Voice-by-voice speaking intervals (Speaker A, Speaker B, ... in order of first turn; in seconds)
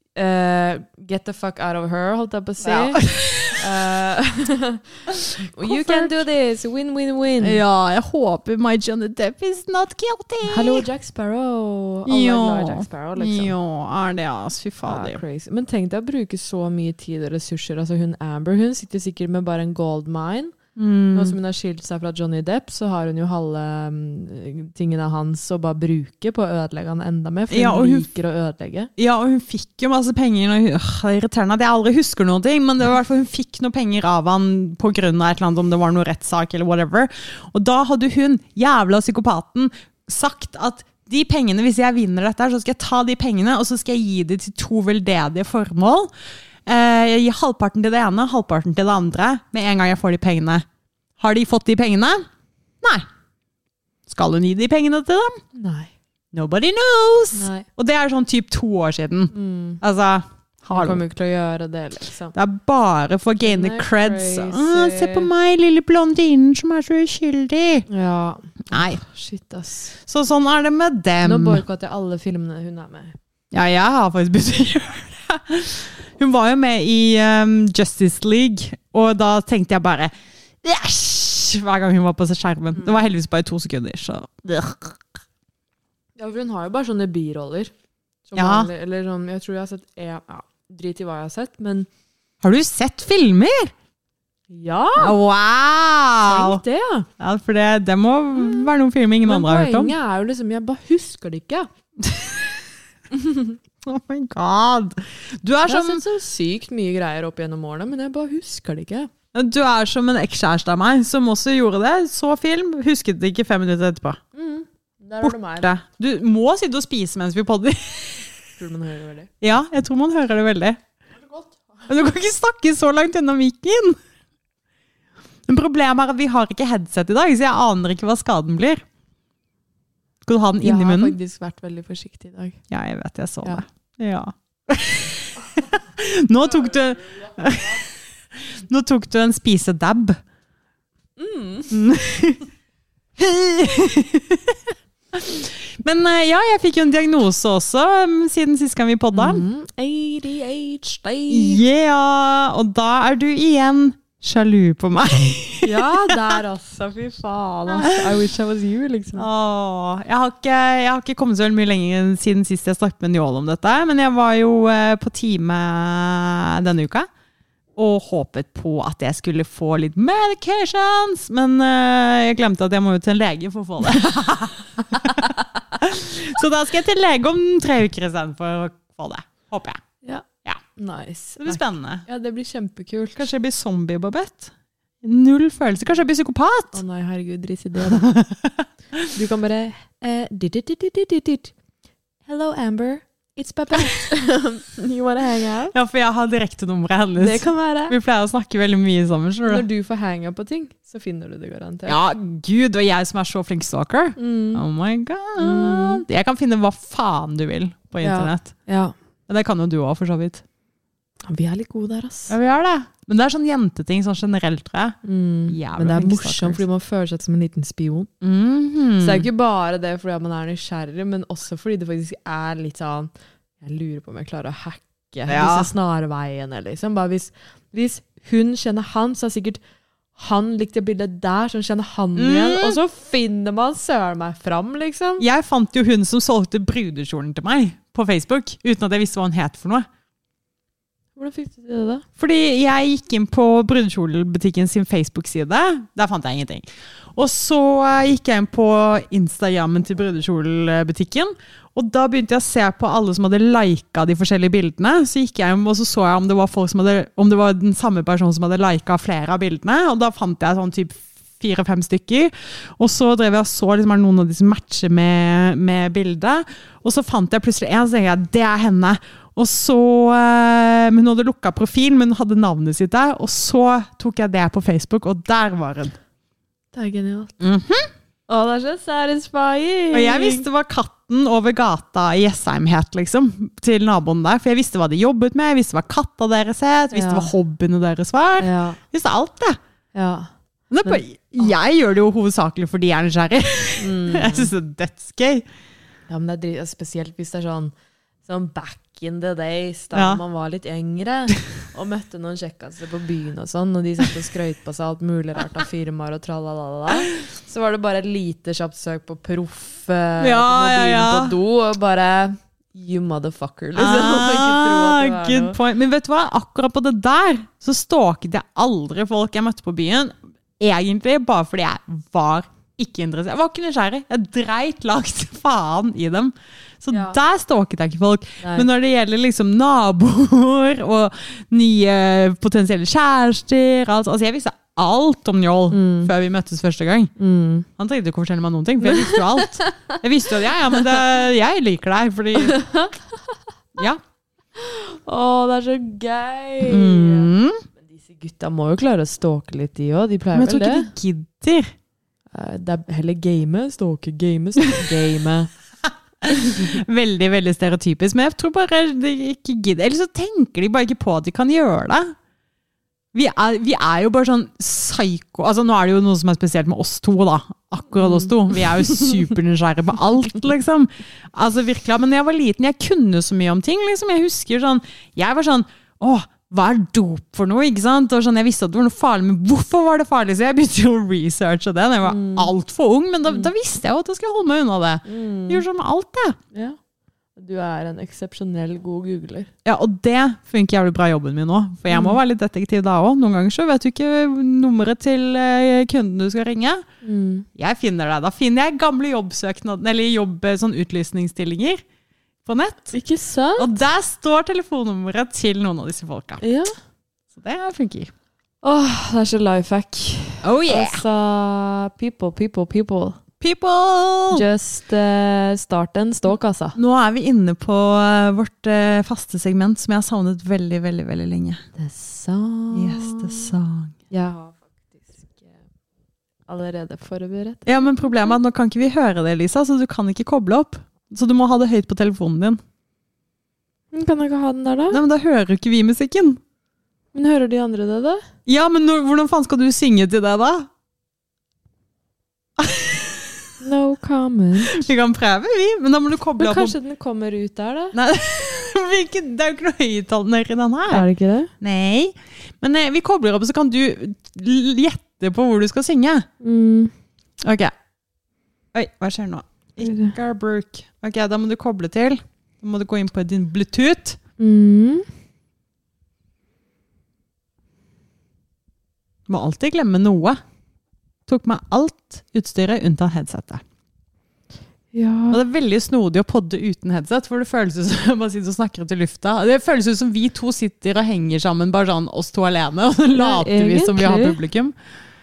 Speaker A: 0.1-7.6, 10.4-13.5, 14.9-20.6, 21.1-28.9, 55.5-55.9, 57.3-57.7, 59.3-59.8, 60.7-62.4, 63.4-65.3, 67.9-70.0, 71.2-73.2, 86.2-87.7, 88.3-91.9, 94.5-95.2, 96.2-97.1, 98.3-98.7, 99.2-101.7, 103.1-103.5, 105.7-109.1, 114.3-115.7, 118.6-119.3, 130.6-132.6, 141.2-141.8, 149.1-151.6, 155.6-159.3, 180.8-183.3, 186.7-188.1, 189.1-191.5, 192.3-195.7, 197.2-198.0, 199.5-202.0, 204.2-204.6, 205.4-206.0, 208.0-208.9, 211.2-212.3, 215.0-218.1, 219.0-223.1, 223.6-229.6, 230.2-235.2, 241.2-242.1, 276.7-277.3, 278.3-280.5, 286.9-287.3, 288.4-288.8, 289.9-290.3, 290.9-291.5, 293.8-294.5, 296.1-297.7, 298.2-315.6, 326.9-327.2, 328.4-328.7, 335.7-336.1, 337.2-337.7, 338.8-340.0, 342.4-343.2, 344.6-350.9, 352.3-355.5, 356.3-356.8, 368.0-368.3, 382.1-382.5, 385.1-385.6, 386.5-386.8, 387.4-389.5, 391.9-392.2, 397.0-397.5, 402.9-403.8, 406.4-406.7, 408.6-413.2, 414.3-416.8, 421.8-423.5, 424.1-425.5, 426.5-428.1, 433.9-435.0, 437.1-438.3, 443.6-444.8, 446.4-448.0, 450.9-451.5, 456.4-456.9, 459.8-460.2, 464.4-465.1, 474.9-475.4, 483.1-484.4
Speaker B: 2.6-3.6, 5.1-6.2, 7.4-10.8, 12.1-15.2, 20.8-21.4, 27.5-28.1, 29.0-46.1, 46.7-50.6, 51.2-52.2, 54.1-55.4, 56.3-61.0, 62.3-67.9, 68.7-69.0, 70.0-71.6, 73.5-80.1, 80.6-85.0, 88.4-88.7, 92.4-93.7, 95.0-96.6, 97.2-100.0, 102.0-102.6, 103.8-106.0, 109.3-114.2, 115.2-118.3, 119.4-120.8, 121.9-124.0, 125.5-128.8, 130.2-131.2, 132.7-140.2, 141.7-142.4, 143.2-149.4, 151.3-156.1, 157.7-158.2, 159.2-167.1, 167.8-179.8, 181.4-182.1, 183.2-184.5, 185.0-186.8, 187.8-189.1, 195.7-199.7, 201.9-208.5, 209.3-210.4, 212.3-215.0, 215.5-216.6, 218.2-219.3, 225.3-225.7, 232.2-232.8, 235.2-239.9, 242.2-276.0, 277.4-277.9, 279.9-289.6, 290.7-295.5, 299.9-300.2, 310.2-311.3, 313.8-337.1, 337.8-342.6, 343.8-344.0, 346.6-347.6, 350.3-351.7, 356.2-362.1, 363.1-386.4, 389.6-396.8, 397.6-401.8, 402.4-402.9, 403.6-406.4, 407.3-408.1, 410.4-411.0, 413.4-414.4, 416.8-421.6, 422.7-423.9, 427.6-432.6, 434.9-436.4, 438.5-440.7, 442.6-443.3, 444.7-446.8, 447.9-451.1, 451.6-456.3, 457.4-457.7, 458.7-464.2, 469.3-470.4, 471.3-473.6, 475.3-484.7